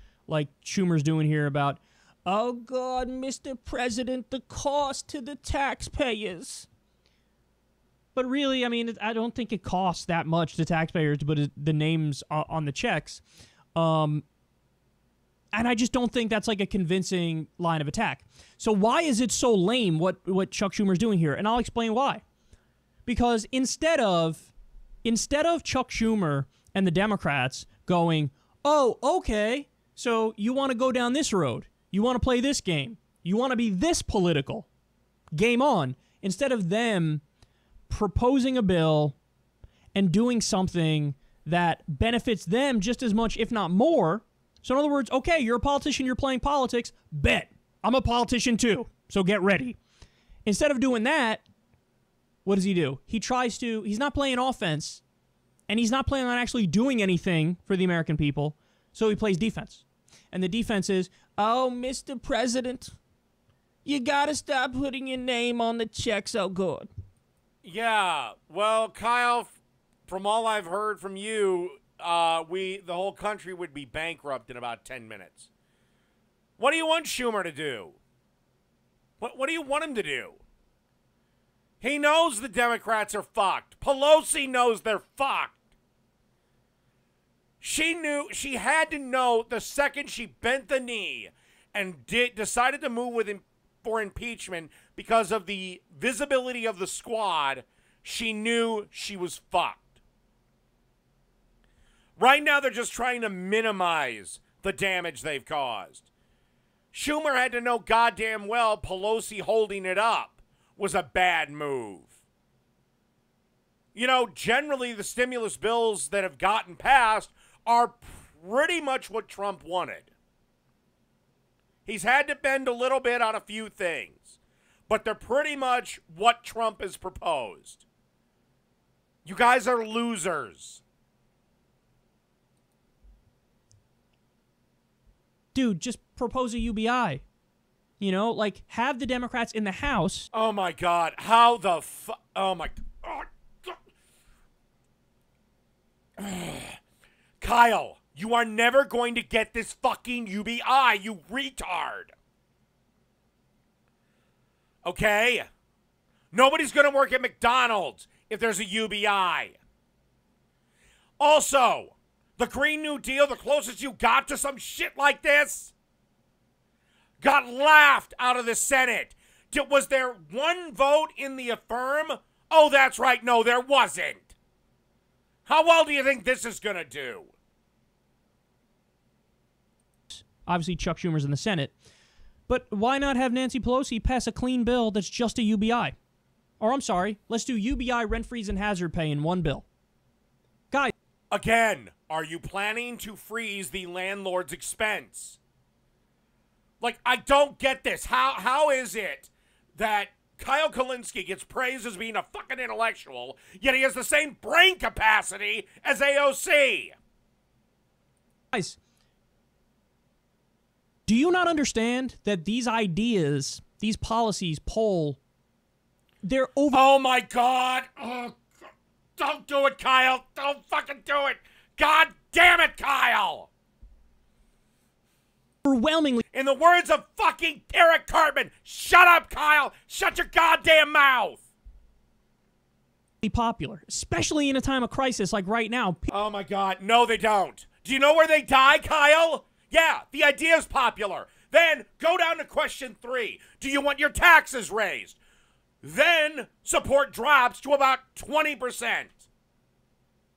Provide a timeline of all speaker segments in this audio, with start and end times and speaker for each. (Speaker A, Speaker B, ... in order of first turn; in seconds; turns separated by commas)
Speaker A: 0.3-6.7, Speaker A: 8.2-13.2, Speaker A: 13.8-14.2, Speaker A: 15.5-22.2, Speaker A: 23.1-24.5, Speaker A: 25.0-34.7, Speaker A: 35.3-37.2, Speaker A: 37.9-39.2, Speaker A: 39.9-49.8, Speaker A: 50.5-51.4, Speaker A: 52.5-55.0, Speaker A: 55.7-63.0, Speaker A: 63.9-66.9, Speaker B: 67.6-75.5, Speaker B: 76.6-78.0, Speaker B: 79.2-80.4, Speaker B: 81.8-85.6, Speaker B: 87.6-99.9, Speaker B: 102.2-106.1, Speaker B: 106.9-112.2, Speaker B: 114.0-120.1, Speaker B: 121.9-127.8, Speaker B: 129.2-130.8, Speaker A: 135.5-137.2, Speaker A: 138.0-140.3, Speaker B: 140.3-143.8, Speaker B: 146.2-146.8, Speaker B: 147.4-152.1, Speaker B: 154.8-155.5, Speaker B: 156.3-159.6, Speaker B: 161.2-165.7, Speaker B: 167.2-174.3, Speaker B: 175.5-177.3, Speaker A: 180.1-181.7, Speaker A: 182.5-186.0, Speaker A: 186.6-189.7, Speaker B: 191.3-195.4, Speaker B: 196.8-206.9, Speaker A: 208.5-208.8, Speaker A: 211.1-215.2, Speaker A: 216.2-216.8, Speaker B: 216.7-218.5, Speaker B: 219.2-223.5, Speaker A: 225.7-226.2, Speaker B: 226.3-231.5, Speaker A: 233.2-236.1, Speaker B: 236.1-245.2, Speaker B: 245.8-249.3